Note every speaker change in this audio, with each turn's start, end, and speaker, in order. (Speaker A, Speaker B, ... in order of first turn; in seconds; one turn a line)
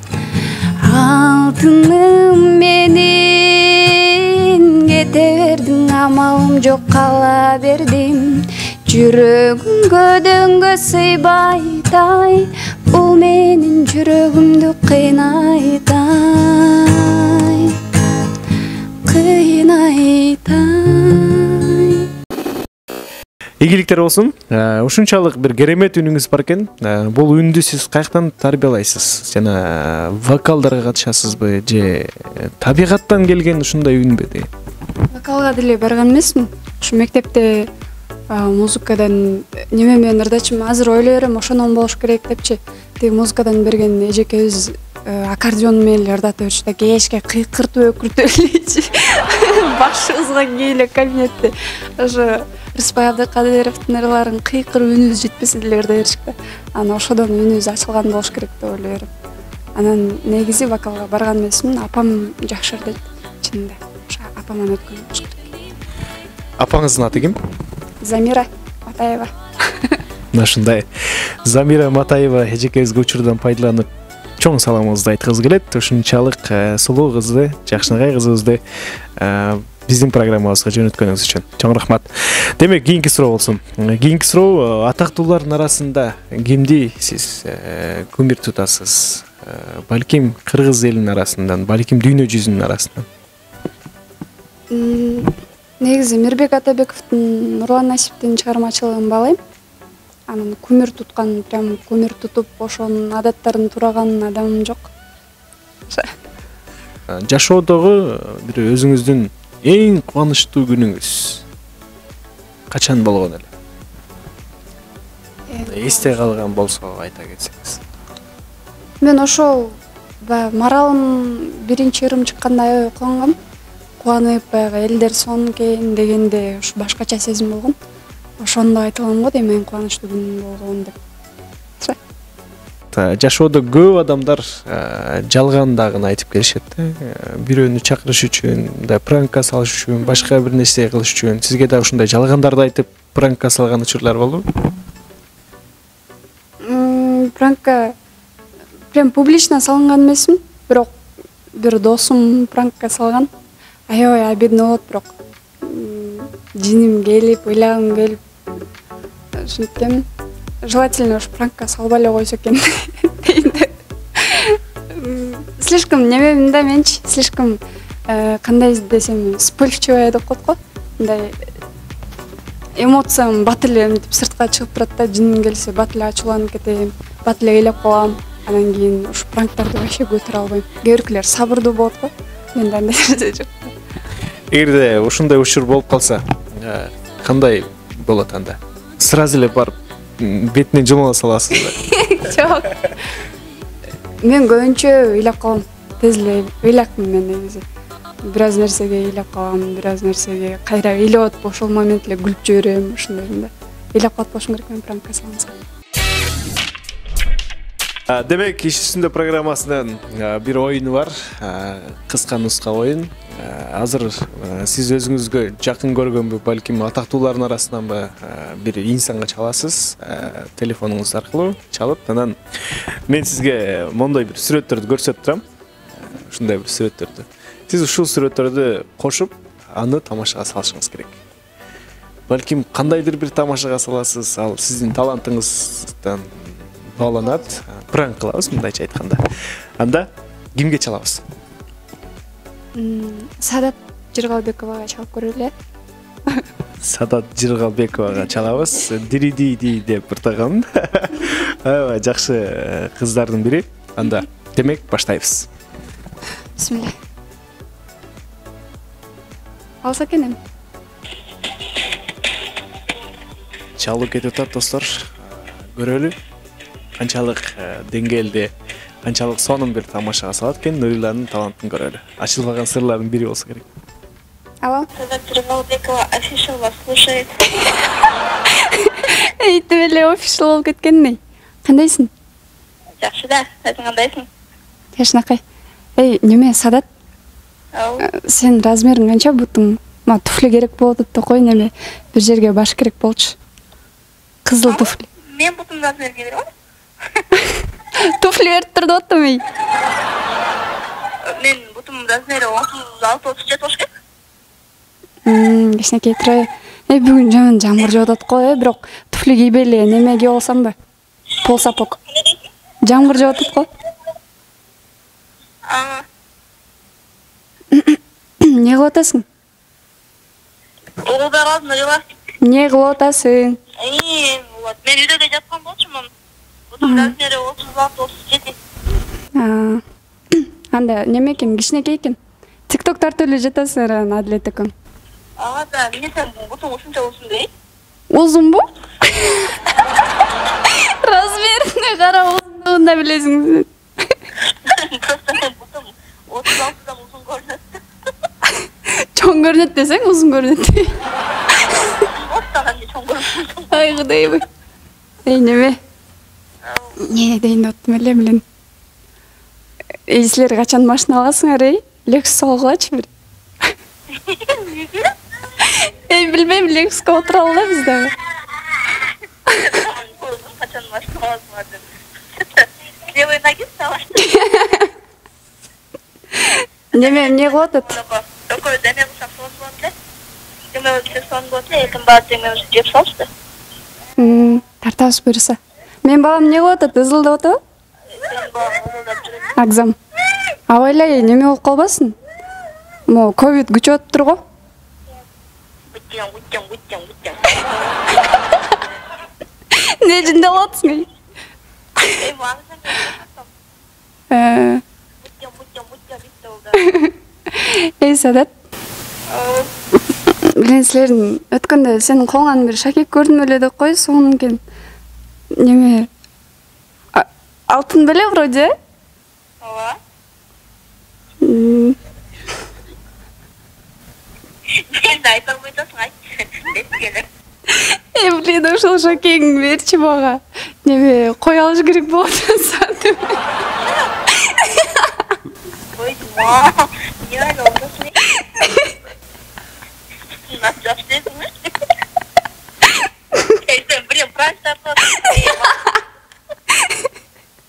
Speaker A: 0.8-17.8
Speaker A: 19.1-22.1
Speaker B: 23.6-34.5
Speaker A: 35.1-37.7
Speaker A: 38.3-59.1
Speaker A: 59.8-65.5
Speaker B: 66.6-67.4
Speaker A: 68.0-70.0
Speaker B: 70.3-78.6
Speaker B: 79.2-93.1
Speaker A: 94.7-99.4
Speaker A: 100.3-104.9
Speaker A: 105.9-106.2
Speaker B: 107.1-111.4
Speaker B: 112.7-113.5
Speaker A: 115.5-116.2
Speaker B: 115.6-117.8
Speaker A: 119.0-123.3
Speaker A: 124.0-127.7
Speaker A: 128.4-130.9
Speaker B: 132.9-144.4
Speaker A: 146.6-147.9
Speaker A: 148.9-150.9
Speaker A: 151.6-153.3
Speaker A: 153.9-158.2
Speaker A: 159.3-160.1
Speaker A: 160.6-171.5
Speaker A: 172.8-183.7
Speaker B: 184.5-191.8
Speaker A: 191.6-192.9
Speaker A: 194.2-197.6
Speaker A: 198.2-205.6
Speaker B: 208.1-225.4
Speaker B: 226.0-231.2
Speaker B: 232.3-239.2
Speaker B: 239.8-241.2
Speaker A: 242.8-245.5
Speaker B: 246.8-255.5
Speaker A: 256.6-256.9
Speaker A: 259.8-260.4
Speaker B: 263.8-266.1
Speaker B: 267.0-268.5
Speaker B: 269.0-273.7
Speaker A: 274.6-274.9
Speaker C: 274.9-277.4
Speaker A: 278.5-282.1
Speaker C: 283.0-284.3
Speaker A: 285.0-285.4
Speaker A: 286.0-286.9
Speaker C: 287.7-288.1
Speaker A: 288.0-293.3
Speaker A: 294.4-295.1
Speaker C: 294.6-296.5
Speaker A: 297.9-299.4
Speaker C: 301.2-303.9
Speaker A: 305.2-310.8
Speaker A: 311.4-312.0
Speaker C: 312.1-312.4
Speaker A: 312.8-313.7
Speaker C: 315.6-316.0
Speaker A: 317.7-319.2
Speaker C: 321.0-322.1
Speaker A: 322.4-323.6
Speaker C: 323.8-326.1
Speaker C: 326.7-328.6
Speaker A: 326.8-327.1
Speaker A: 329.4-332.2
Speaker A: 332.7-334.7
Speaker C: 335.4-337.5
Speaker A: 338.1-339.6
Speaker A: 340.7-344.2
Speaker C: 344.6-347.8
Speaker A: 348.4-351.0
Speaker A: 351.6-352.0
Speaker C: 352.1-354.4
Speaker A: 353.7-354.4
Speaker A: 355.2-355.8
Speaker C: 356.6-357.0
Speaker A: 357.0-358.4
Speaker A: 360.1-363.1
Speaker C: 364.1-365.1
Speaker A: 365.6-368.1
Speaker A: 369.5-369.7
Speaker C: 369.5-371.8
Speaker C: 372.4-374.3
Speaker A: 374.2-374.9
Speaker A: 376.4-377.9
Speaker C: 376.9-379.9
Speaker C: 380.7-383.3
Speaker A: 384.2-387.6
Speaker C: 388.1-389.6
Speaker A: 389.6-390.0
Speaker A: 390.7-392.1
Speaker A: 393.1-394.4
Speaker C: 395.9-398.2
Speaker A: 399.7-401.1
Speaker C: 400.4-400.7
Speaker C: 402.1-403.5
Speaker A: 404.3-404.8
Speaker C: 405.2-406.9
Speaker A: 406.8-408.5
Speaker C: 409.3-409.7
Speaker A: 410.4-414.6
Speaker A: 415.5-416.1
Speaker A: 417.1-418.7
Speaker C: 419.6-420.0
Speaker A: 421.4-422.0
Speaker C: 424.7-427.2
Speaker A: 427.7-433.4
Speaker A: 434.4-435.1
Speaker C: 435.9-438.2
Speaker A: 438.6-438.9
Speaker C: 440.3-441.7
Speaker C: 443.5-445.8
Speaker A: 445.1-445.6
Speaker A: 446.8-447.0